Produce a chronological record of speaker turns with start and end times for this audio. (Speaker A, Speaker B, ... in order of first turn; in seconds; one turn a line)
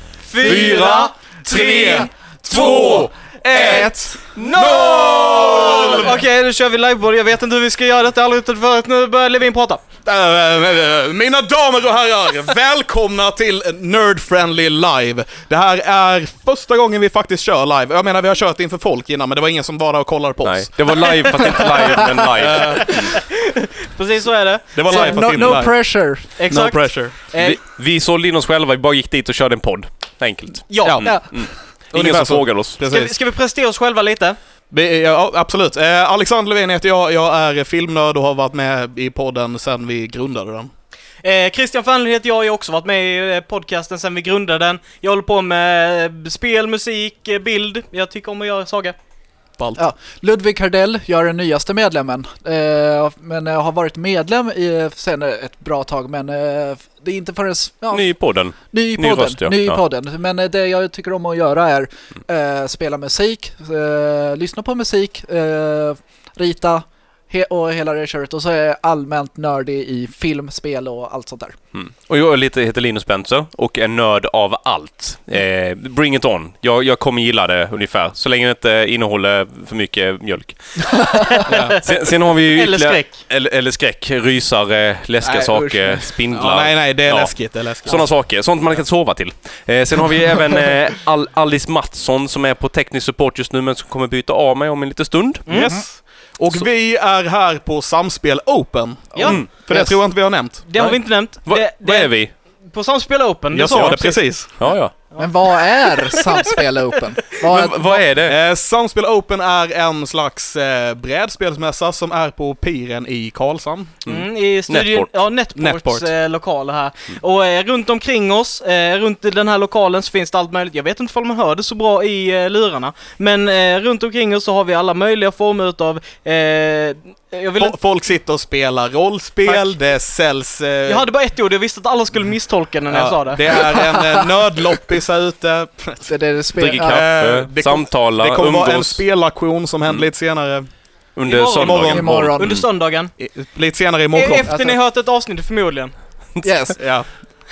Speaker A: 0.2-9.8
Speaker B: 0.4-3.0
Speaker C: 0.5-0.8
Speaker C: 1.4-6.2
Speaker D: 3.6-4.2
Speaker B: 4.4-5.9
Speaker C: 10.0-21.6
Speaker B: 20.4-23.1
Speaker A: 21.0-25.1
Speaker C: 22.3-23.1
Speaker C: 24.7-25.7
Speaker D: 24.9-26.4
Speaker A: 26.4-27.6
Speaker C: 26.5-27.1
Speaker B: 27.3-32.8
Speaker A: 30.7-31.0
Speaker C: 30.8-31.3
Speaker D: 31.0-31.3
Speaker C: 31.9-33.1
Speaker A: 32.9-34.4
Speaker C: 34.7-40.7
Speaker A: 41.2-49.0
Speaker D: 49.8-58.1
Speaker B: 57.9-59.8
Speaker D: 58.7-71.6
Speaker B: 71.7-95.6
Speaker C: 81.5-81.8
Speaker A: 81.5-81.8
Speaker A: 82.5-83.2
Speaker C: 85.2-88.1
Speaker A: 95.5-95.7
Speaker C: 95.5-100.6
Speaker A: 99.1-99.4
Speaker D: 99.7-100.0
Speaker A: 100.6-102.1
Speaker B: 100.7-102.3
Speaker A: 102.6-104.2
Speaker C: 103.5-104.5
Speaker B: 103.7-104.0
Speaker B: 104.5-104.9
Speaker D: 105.2-108.1
Speaker A: 106.1-106.4
Speaker B: 107.4-108.3
Speaker C: 108.2-114.0
Speaker B: 114.0-115.1
Speaker A: 114.0-127.8
Speaker C: 115.5-116.1
Speaker C: 127.6-131.1
Speaker A: 130.8-133.7
Speaker C: 132.9-136.1
Speaker D: 133.7-134.2
Speaker D: 136.1-137.1
Speaker B: 136.6-139.0
Speaker C: 136.8-140.7
Speaker B: 141.2-142.6
Speaker A: 141.2-143.1
Speaker D: 141.8-142.6
Speaker C: 143.2-144.5
Speaker A: 144.1-145.9
Speaker D: 144.4-144.8
Speaker D: 146.4-146.9
Speaker C: 146.8-147.1